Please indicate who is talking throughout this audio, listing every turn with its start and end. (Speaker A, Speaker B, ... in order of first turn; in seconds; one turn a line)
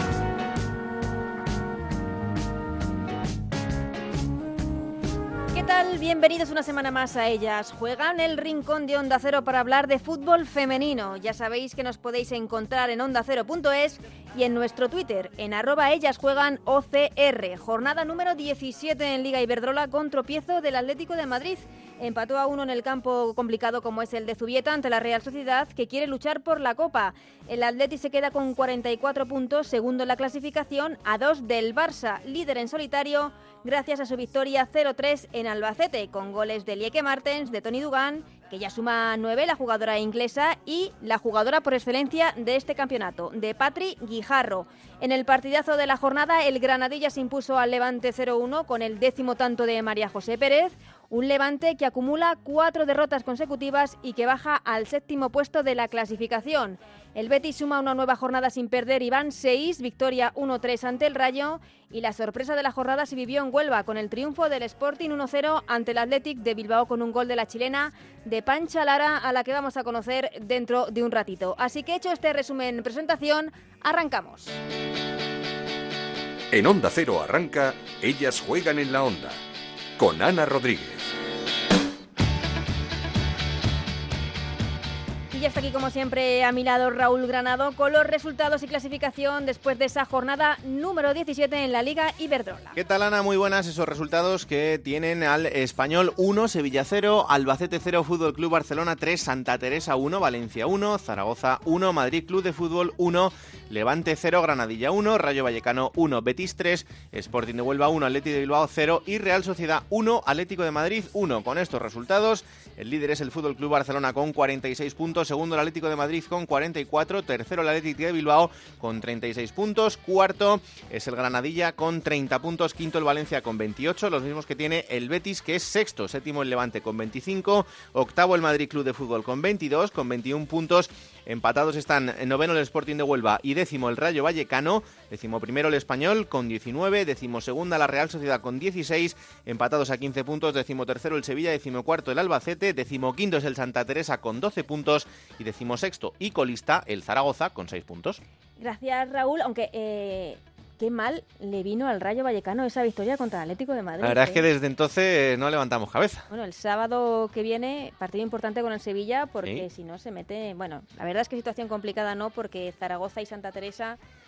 Speaker A: 5.5-74.6
Speaker B: 76.5-79.4
Speaker B: 80.0-81.1
Speaker A: 85.3-92.8
Speaker C: 92.7-148.2
Speaker A: 148.6-154.4
Speaker C: 154.0-156.3
Speaker A: 156.3-164.0